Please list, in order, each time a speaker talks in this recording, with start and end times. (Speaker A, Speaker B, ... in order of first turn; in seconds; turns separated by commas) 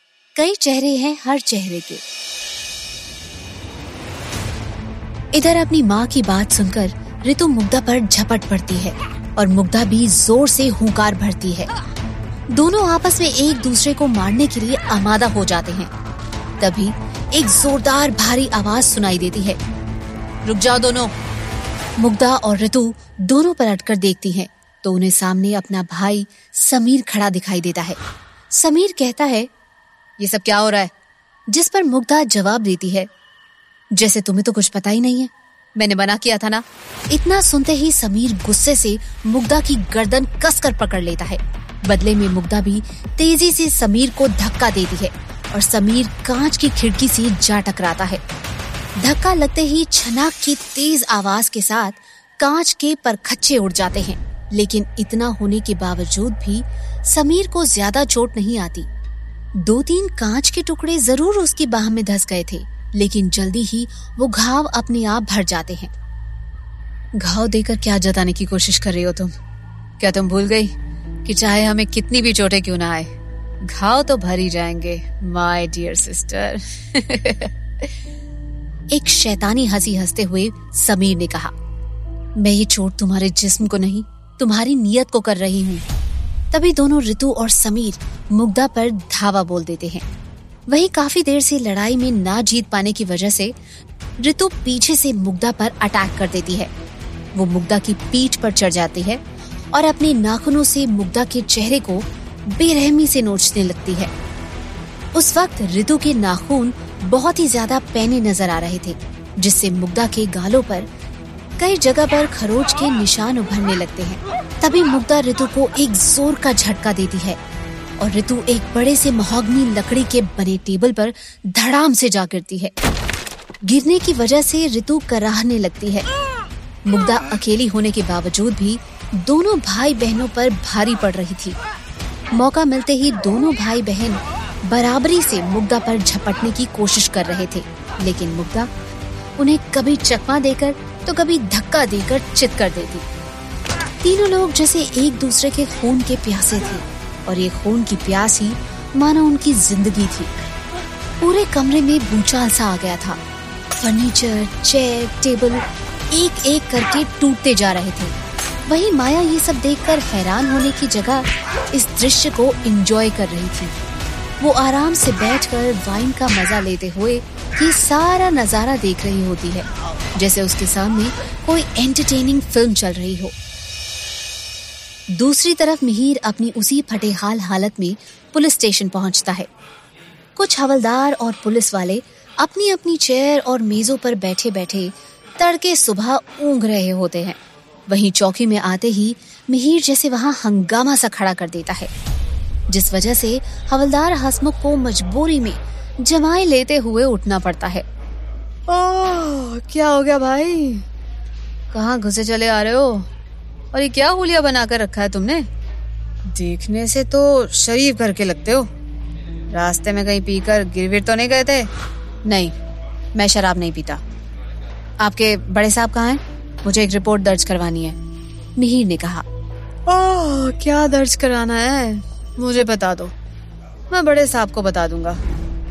Speaker A: 0.3-2.0, Speaker A: 5.3-11.7, Speaker A: 12.5-15.9, Speaker A: 16.6-19.6, Speaker A: 20.4-21.1, Speaker A: 22.0-28.0, Speaker A: 28.5-29.5, Speaker A: 30.2-30.9, Speaker A: 31.5-33.1, Speaker A: 33.9-48.2, Speaker A: 49.0-58.9, Speaker A: 59.6-65.9, Speaker A: 67.2-69.3, Speaker A: 70.0-70.7, Speaker A: 71.2-73.1, Speaker A: 73.7-77.5, Speaker A: 78.9-81.5, Speaker A: 82.4-85.8, Speaker A: 86.5-90.0, Speaker A: 90.7-93.5, Speaker A: 94.2-96.7, Speaker A: 97.3-99.2, Speaker A: 99.7-104.1, Speaker A: 105.1-110.9, Speaker A: 111.6-117.4, Speaker A: 118.0-122.7, Speaker A: 123.6-126.0, Speaker A: 126.8-131.6, Speaker A: 132.3-138.7, Speaker A: 139.4-143.1, Speaker A: 144.0-150.3, Speaker A: 151.2-153.2, Speaker A: 153.8-158.1, Speaker A: 158.7-163.8, Speaker A: 164.4-173.3, Speaker A: 175.1-179.5, Speaker A: 180.3-191.9, Speaker A: 192.7-197.8, Speaker A: 198.7-200.8, Speaker A: 201.7-203.1, Speaker A: 203.7-205.5, Speaker A: 206.3-208.7, Speaker A: 209.5-211.7, Speaker A: 212.2-212.5, Speaker A: 213.1-214.0, Speaker A: 215.0-217.9, Speaker A: 218.6-219.2, Speaker A: 219.9-223.1, Speaker A: 223.9-225.2